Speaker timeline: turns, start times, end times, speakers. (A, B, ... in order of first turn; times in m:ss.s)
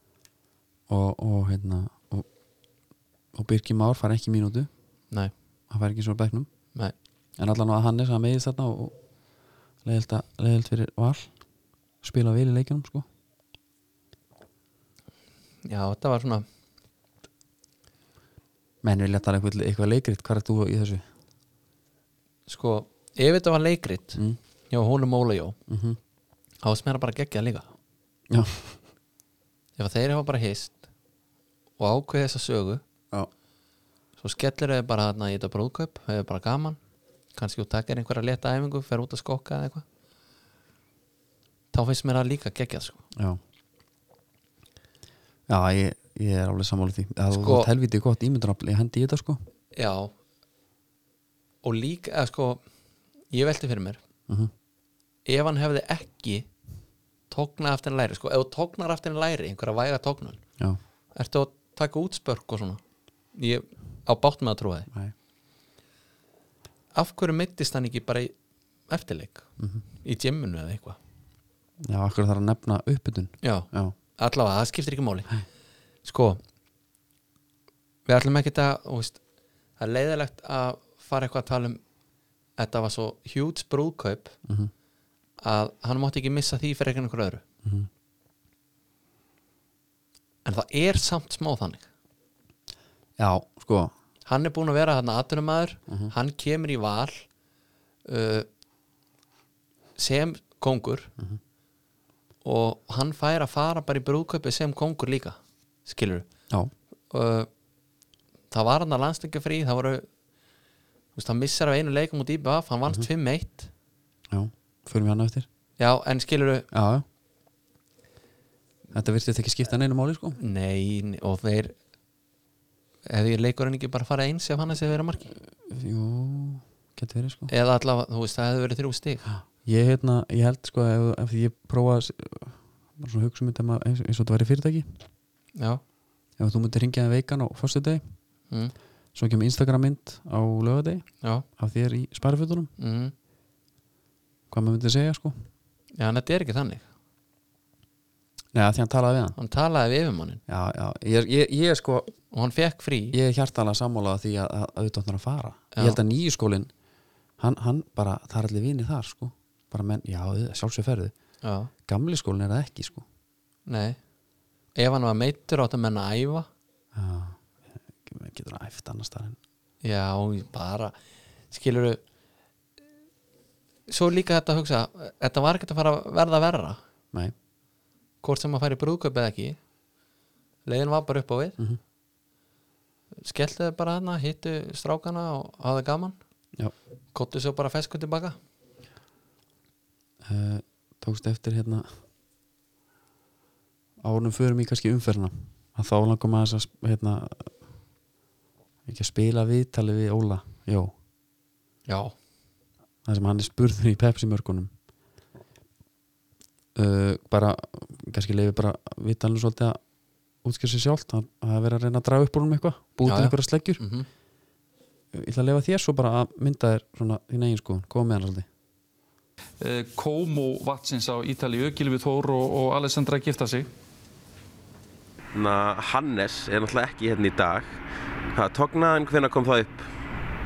0:00.9-0:02.3 A
0:03.3-0:04.7 A
0:05.7-0:06.5 A
0:07.4-0:08.9 A
0:09.8-0:11.3 A
0:12.0-0:13.0 A
0:15.6-0:16.4 B
0:18.8-0:21.0 A
0:22.5-0:25.6 B
0:25.7-0:26.0 A
0:26.6-0:27.7 B
0:28.3-0:28.8 A
0:29.8-0:30.8 B
0:31.8-0:32.8 B
0:34.2-0:36.8 B
0:37.3-0:39.8 B
0:41.7-0:43.0 B
0:43.1-0:43.4 A
0:45.5-0:49.4 A
0:47.3-0:47.7 B
0:49.7-0:50.1 B
0:51.6-0:52.6 B
0:53.3-0:54.0 B
0:55.2-0:56.5 B
0:57.3-1:00.4 B
1:01.1-1:02.8 B
1:03.3-1:04.9 B
1:06.9-1:08.3 B
1:08.9-1:09.5 B
1:10.0-1:11.0 B
1:11.8-1:13.9 A
1:13.4-1:15.3 B
1:16.0-1:16.4 B
1:18.0-1:19.2 B
1:19.8-1:21.8 B
1:22.6-1:24.4 B
1:25.4-1:27.4 B
1:30.4-1:31.8 B
1:33.2-1:33.9 A
1:34.2-1:37.2 B
1:38.0-1:38.5 B
1:40.0-1:41.1 B
1:42.4-1:46.3 B
1:47.1-1:47.5 B
1:48.5-1:50.0 B
1:51.2-1:53.7 B
1:54.3-1:55.5 A
1:55.8-1:56.7 B
1:56.7-1:57.0 A
1:58.9-2:00.4 A
2:00.4-2:01.7 B
2:03.0-2:05.3 B
2:05.6-2:07.5 A
2:07.5-2:09.2 B
2:09.3-2:14.9 A
2:15.6-2:15.8 B
2:16.4-2:18.0 A
2:19.1-2:21.0 A
2:21.6-2:22.7 A
2:22.8-2:23.1 B
2:24.5-2:25.4 A
2:26.0-2:26.8 B
2:28.5-2:29.4 A
2:29.4-2:30.4 B
2:30.5-2:32.1 A
2:32.3-2:33.2 B
2:33.1-2:36.7 A
2:37.4-2:41.1 A
2:41.4-2:41.7 B
2:41.9-2:43.0 A
2:43.7-2:44.0 B
2:44.8-2:46.5 B
2:46.9-2:47.4 A
2:48.0-2:49.4 A
2:49.8-2:50.9 B
2:51.5-2:52.0 B
2:53.9-2:56.8 B
2:58.2-2:59.6 B
3:00.6-3:01.6 B
3:03.2-3:06.2 B
3:07.1-3:08.4 B
3:10.2-3:11.9 A
3:14.0-3:17.5 A
3:18.8-3:20.9 A
3:21.9-3:22.1 B
3:23.0-3:24.7 A
3:26.7-3:29.8 A
3:30.4-3:33.8 A
3:33.0-3:34.1 B
3:35.1-3:38.5 A
3:39.6-3:43.7 C
3:45.3-3:47.8 D
3:48.3-3:49.9 D